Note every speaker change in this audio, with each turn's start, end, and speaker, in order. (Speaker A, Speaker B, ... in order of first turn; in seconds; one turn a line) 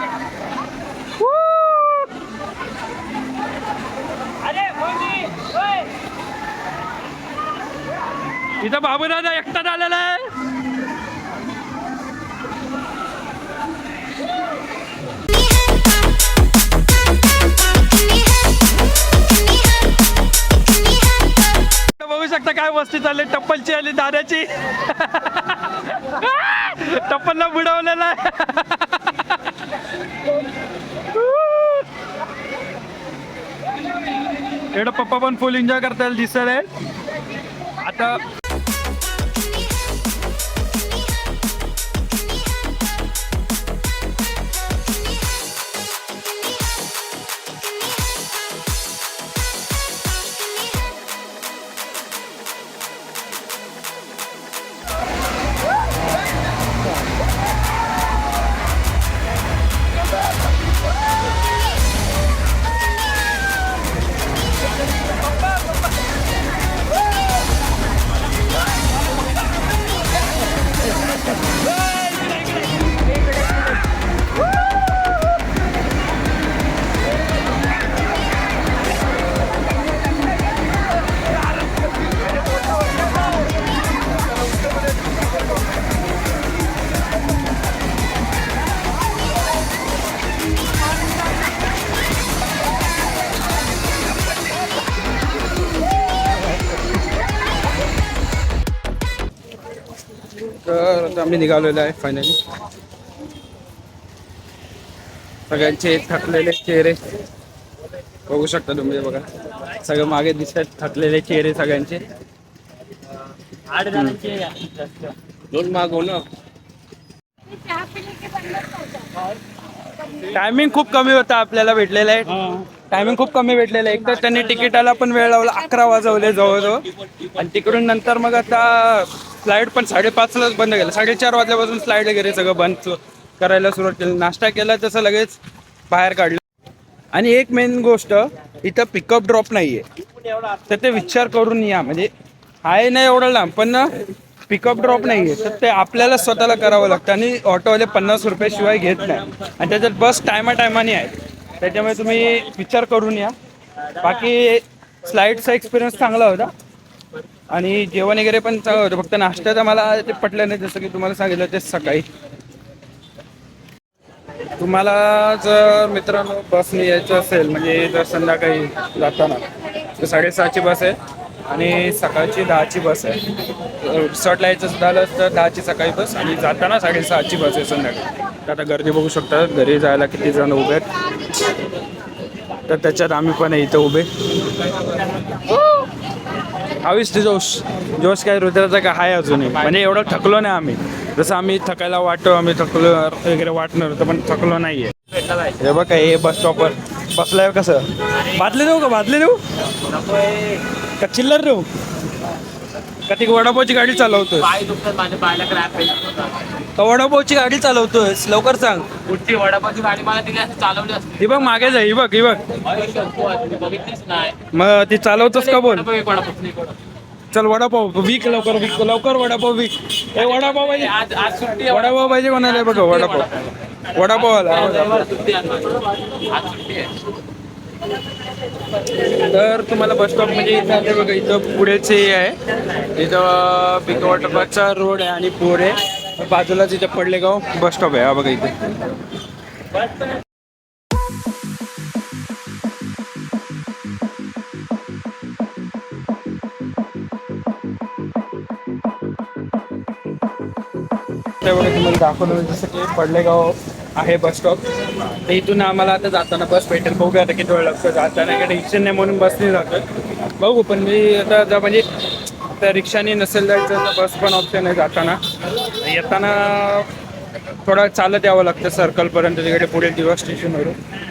Speaker A: 1.2-2.1
Speaker B: 4.5-5.6
Speaker A: 8.6-10.3
Speaker A: 21.9-29.3
Speaker A: 31.1-31.9
Speaker A: 34.7-36.7
Speaker A: 37.8-38.2
Speaker A: 100.6-102.4
Speaker A: 105.5-107.0
Speaker A: 108.3-112.1
Speaker B: 113.7-114.8
Speaker A: 113.9-114.3
Speaker A: 115.5-116.2
Speaker A: 120.2-135.4
Speaker A: 135.9-136.4
Speaker A: 137.1-139.8
Speaker A: 140.5-142.1
Speaker A: 142.6-143.9
Speaker A: 144.5-153.3
Speaker A: 154.0-156.5
Speaker A: 157.5-162.1
Speaker A: 164.6-169.4
Speaker A: 169.9-181.5
Speaker A: 182.7-184.1
Speaker A: 185.3-185.9
Speaker A: 186.8-194.9
Speaker B: 195.2-195.5
Speaker A: 195.6-199.4
Speaker B: 199.9-200.6
Speaker A: 201.0-201.7
Speaker A: 203.1-204.6
Speaker B: 204.5-206.5
Speaker A: 206.8-208.9
Speaker B: 209.1-211.4
Speaker A: 211.2-212.5
Speaker B: 212.7-214.4
Speaker A: 214.5-215.9
Speaker B: 215.7-216.7
Speaker A: 217.3-225.2
Speaker B: 220.9-221.7
Speaker B: 225.1-226.9
Speaker A: 229.0-238.5
Speaker A: 251.4-259.9
Speaker A: 260.4-265.2
Speaker A: 265.8-266.9
Speaker A: 267.6-270.8